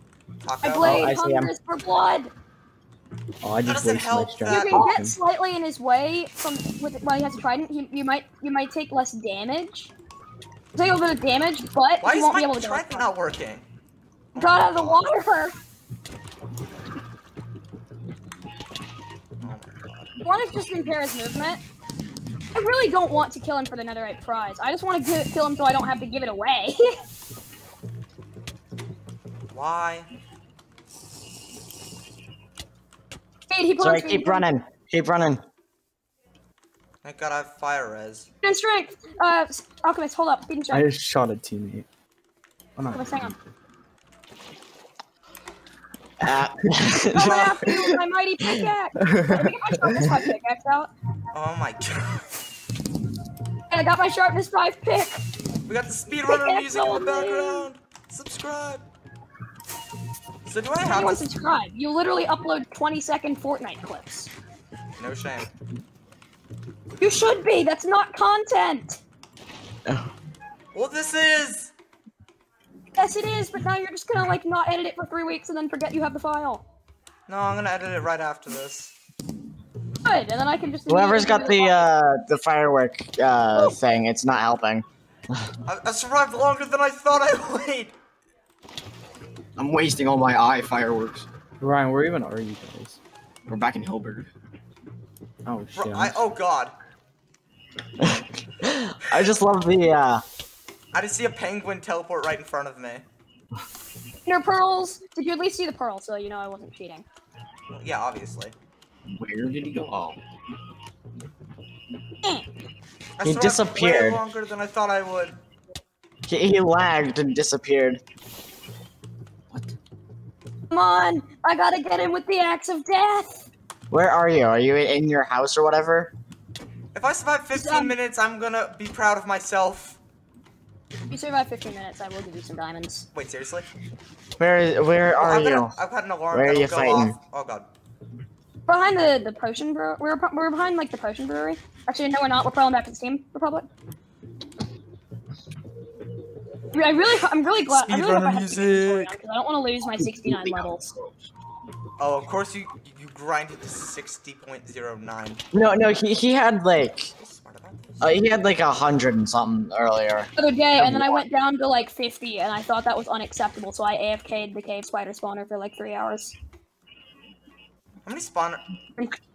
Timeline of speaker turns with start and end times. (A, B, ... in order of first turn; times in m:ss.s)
0:00.4-0:01.1 A
0:00.6-0:02.3 B
0:00.8-0:01.5 C
0:03.4-0:05.2 D
0:03.6-0:04.9 A
0:04.5-0:09.9 B
0:10.7-0:13.1 B
0:12.0-0:13.6 A
0:14.3-0:15.0 A
0:14.4-0:15.5 B
0:19.4-0:20.1 A
0:20.2-0:21.6 B
0:22.5-0:27.0 B
0:29.5-0:30.1 A
0:33.5-0:34.4 B
0:33.8-0:35.4 C
0:37.0-0:38.3 A
0:38.4-0:40.8 B
0:40.7-0:41.9 D
0:42.8-0:43.4 D
0:42.9-0:43.3 B
0:46.2-0:47.8 C
0:47.1-0:50.9 B
0:47.2-0:47.7 A
0:49.0-0:49.9 D
0:51.3-0:52.4 A
0:53.7-0:55.2 B
0:55.7-0:58.8 A
0:56.2-0:57.7 B
1:00.4-1:01.3 A
1:00.8-1:04.3 B
1:05.0-1:05.5 A
1:07.0-1:09.0 B
1:10.7-1:11.7 A
1:13.0-1:16.6 B
1:17.3-1:18.9 A
1:20.0-1:21.9 B
1:20.9-1:24.8 C
1:25.6-1:27.9 A
1:29.6-1:31.3 E
1:31.6-1:33.0 D
1:33.5-1:34.3 E
1:35.4-1:36.2 D
1:35.7-1:36.7 A
1:38.0-1:40.2 C
1:40.9-1:43.0 A
1:44.2-1:47.0 B
1:47.7-1:48.5 A
1:49.1-1:50.2 E
1:53.2-1:55.4 A
1:53.2-1:54.2 C
1:56.3-1:58.0 C
1:59.5-1:59.7 E
2:00.7-2:03.5 B
2:03.9-2:06.1 C
2:06.9-2:10.0 A
2:07.6-2:07.9 B
2:11.1-2:13.1 B
2:13.1-2:13.7 A
2:14.4-2:15.7 C
2:15.2-2:17.7 A
2:16.3-2:17.2 C
2:18.7-2:23.7 B
2:26.7-2:30.9 B
2:27.6-2:29.2 A
2:30.0-2:31.2 E
2:32.0-2:35.4 A
2:35.5-2:37.1 C
2:37.2-2:38.2 A
2:38.0-2:41.2 C
2:40.4-2:46.3 B
2:48.0-2:48.6 A